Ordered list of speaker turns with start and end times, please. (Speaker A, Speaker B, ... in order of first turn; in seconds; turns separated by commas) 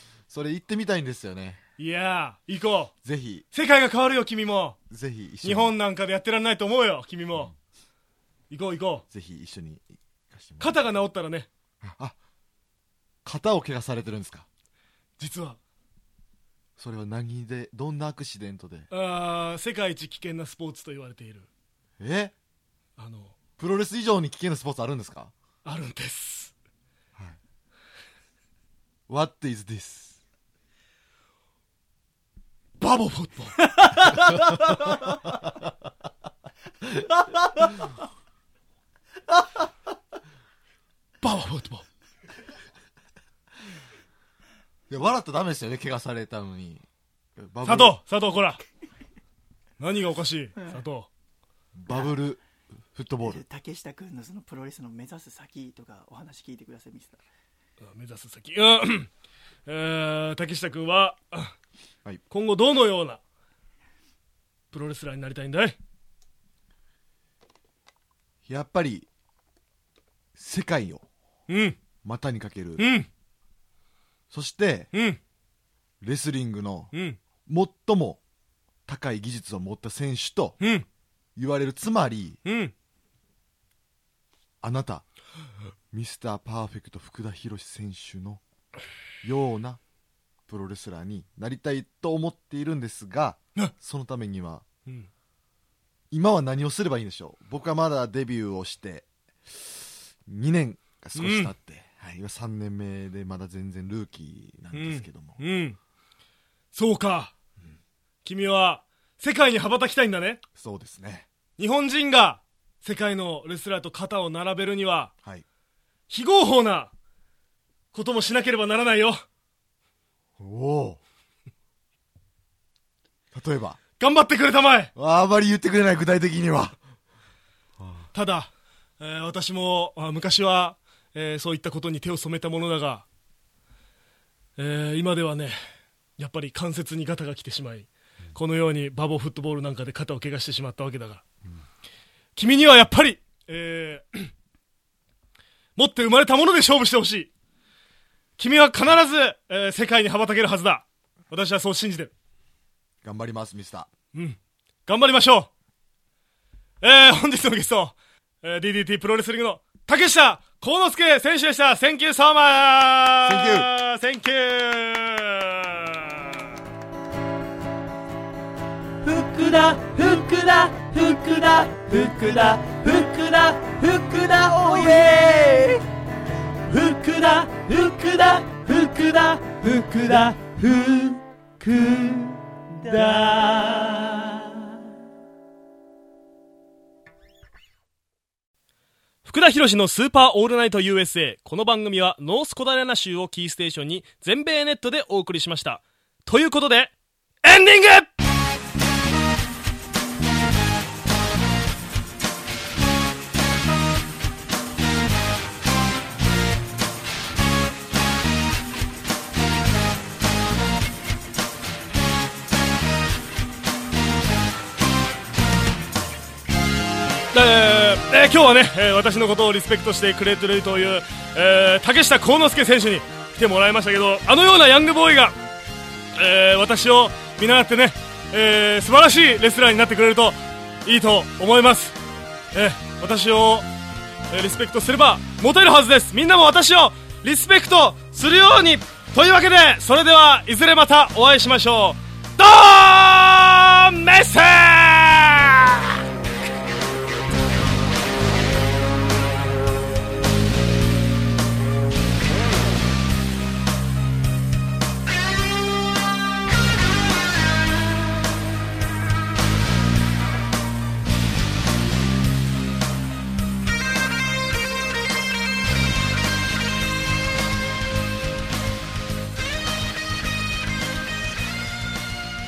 Speaker A: 0.3-1.6, Speaker B: 1.8-2.9, Speaker A: 3.0-3.4, Speaker B: 3.5-4.8, Speaker A: 4.9-5.7, Speaker B: 5.4-7.5, Speaker B: 8.5-9.0, Speaker A: 9.1-10.8, Speaker B: 10.6-11.5, Speaker A: 11.8-12.2, Speaker A: 13.2-14.5, Speaker B: 15.2-15.6, Speaker A: 16.8-18.9, Speaker B: 18.9-21.5, Speaker A: 22.0-22.3, Speaker B: 23.0-23.4, Speaker A: 23.6-25.3, Speaker B: 25.6-26.5, Speaker A: 29.1-30.2, Speaker B: 32.8-34.2, Speaker C: 33.8-34.6, Speaker B: 41.2-41.8, Speaker A: 44.9-46.8, Speaker A: 47.4-48.0, Speaker B: 47.6-48.6, Speaker B: 49.8-51.1, Speaker A: 51.8-53.4, Speaker C: 53.2-57.2, Speaker B: 57.8-59.1, Speaker B: 59.6-61.5, Speaker B: 62.3-63.2, Speaker B: 64.7-65.8, Speaker A: 68.5-69.1, Speaker A: 70.3-71.0, Speaker B: 71.5-71.8, Speaker A: 72.0-72.9, Speaker B: 72.8-73.1, Speaker A: 74.3-74.9, Speaker B: 74.9-75.2, Speaker A: 76.0-76.9, Speaker B: 76.9-77.2, Speaker A: 77.5-78.2, Speaker A: 78.9-80.6, Speaker B: 80.6-80.8, Speaker A: 81.3-82.4, Speaker B: 82.4-82.7, Speaker A: 84.6-85.0, Speaker A: 85.9-88.4, Speaker A: 89.2-89.8, Speaker A: 90.5-94.6, Speaker A: 96.1-105.4, Speaker B: 101.2-101.5, Speaker B: 104.7-105.8, Speaker B: 106.7-107.3, Speaker B: 108.2-110.4, Speaker A: 110.5-111.3, Speaker B: 111.6-115.1, Speaker B: 116.1-116.9, Speaker B: 117.9-119.2, Speaker A: 120.4-121.0, Speaker A: 123.3-123.8, Speaker B: 124.0-124.9, Speaker A: 125.0-126.8, Speaker A: 127.8-128.1, Speaker B: 128.1-133.1, Speaker B: 134.6-135.6, Speaker B: 136.2-141.2, Speaker B: 142.3-144.3, Speaker B: 145.8-147.3, Speaker B: 148.4-152.1, Speaker A: 153.0-153.9, Speaker B: 154.1-155.5, Speaker B: 156.8-166.4, Speaker A: 163.2-163.7, Speaker C: 169.0-175.8, Speaker C: 176.7-184.5, Speaker B: 189.2-196.9, Speaker B: 197.4-198.1, Speaker B: 217.3-225.3, Speaker B: 226.2-231.9, Speaker B: 232.5-233.7, Speaker B: 234.3-245.9